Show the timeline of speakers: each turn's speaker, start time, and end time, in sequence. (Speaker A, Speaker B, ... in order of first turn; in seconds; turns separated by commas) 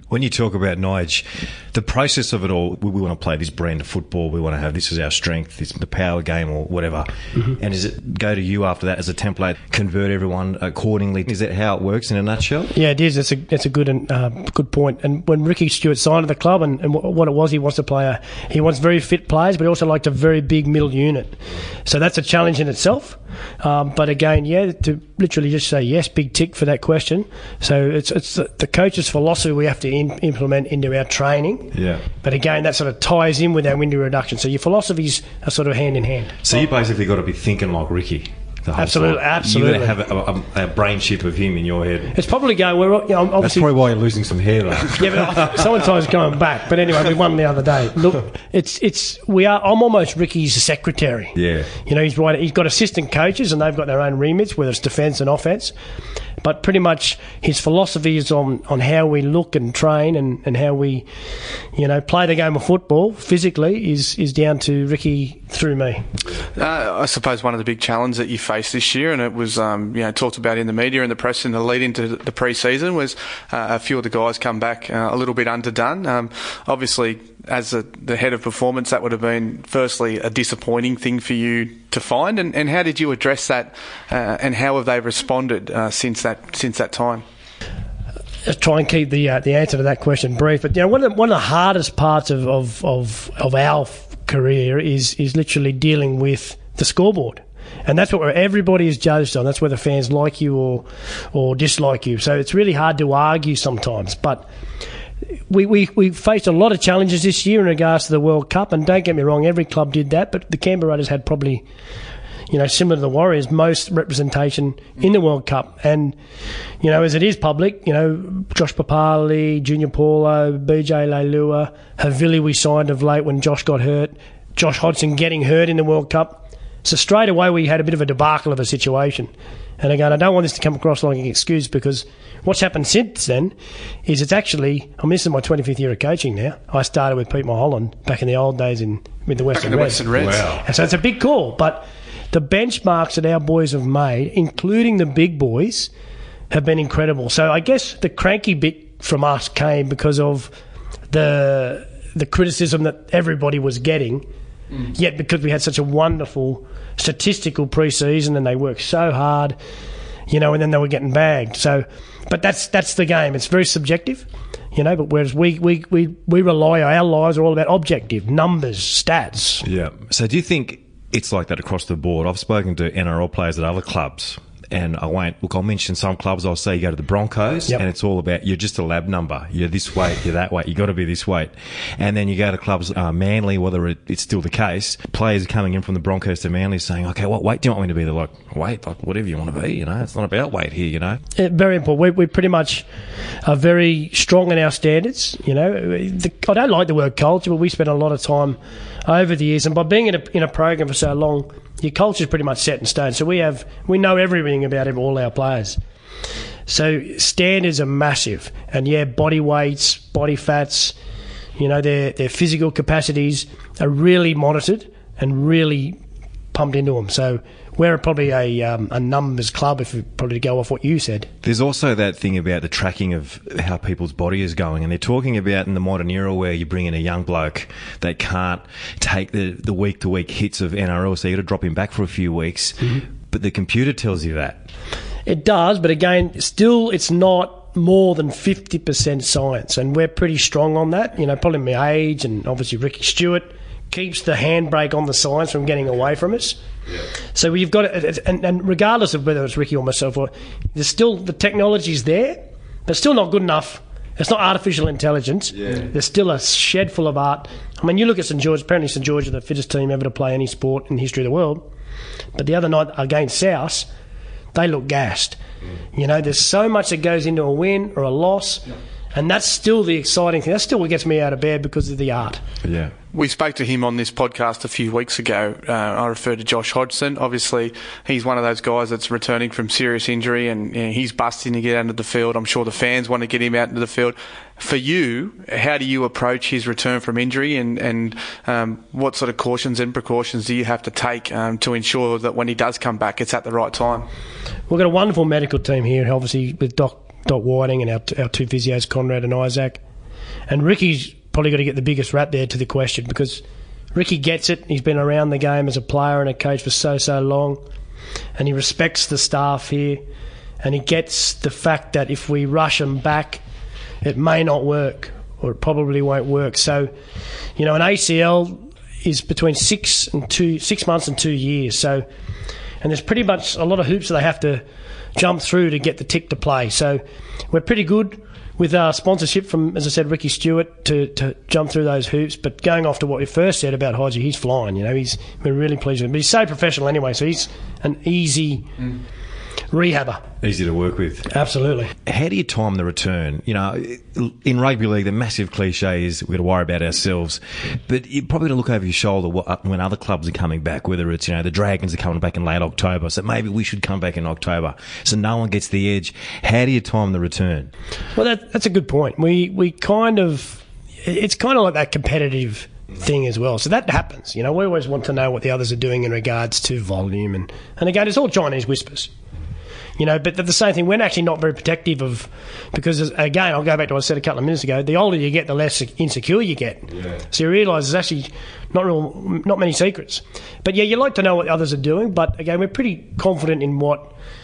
Speaker A: 0.1-12.7, Speaker B: 12.7-36.4, Speaker A: 31.7-32.1, Speaker A: 36.4-42.1, Speaker B: 38.8-40.0, Speaker B: 42.1-43.7, Speaker A: 43.4-45.7, Speaker B: 45.0-51.3, Speaker A: 51.4-51.7, Speaker B: 51.9-55.7, Speaker B: 56.4-61.1, Speaker B: 61.7-66.0, Speaker C: 66.5-87.2, Speaker B: 88.5-104.5, Speaker B: 105.5-111.7, Speaker B: 112.5-116.2, Speaker B: 116.8-133.6, Speaker B: 134.1-145.9, Speaker C: 139.6-140.5, Speaker A: 140.2-140.6, Speaker B: 146.5-150.5, Speaker B: 151.1-154.3, Speaker B: 154.9-159.6, Speaker B: 160.3-169.7, Speaker A: 169.6-191.2, Speaker B: 191.4-192.9, Speaker B: 193.4-205.8, Speaker B: 206.7-210.9, Speaker B: 211.6-216.0, Speaker B: 216.5-221.3, Speaker A: 221.4-234.7, Speaker B: 235.3-246.6, Speaker B: 247.3-261.7, Speaker B: 262.4-263.9, Speaker B: 264.5-265.4, Speaker B: 265.9-272.4, Speaker A: 272.6-272.9, Speaker C: 273.1-294.1, Speaker B: 294.7-299.8, Speaker B: 300.5-303.4, Speaker B: 303.9-307.6, Speaker B: 308.4-310.0, Speaker B: 310.6-313.4, Speaker B: 314.0-316.9, Speaker B: 317.6-322.1, Speaker B: 322.8-324.6, Speaker B: 325.1-338.7, Speaker B: 339.7-340.2, Speaker A: 340.4-341.3, Speaker B: 341.3-341.9, Speaker A: 342.1-357.7, Speaker B: 358.1-369.1, Speaker B: 370.0-384.1, Speaker A: 376.9-377.2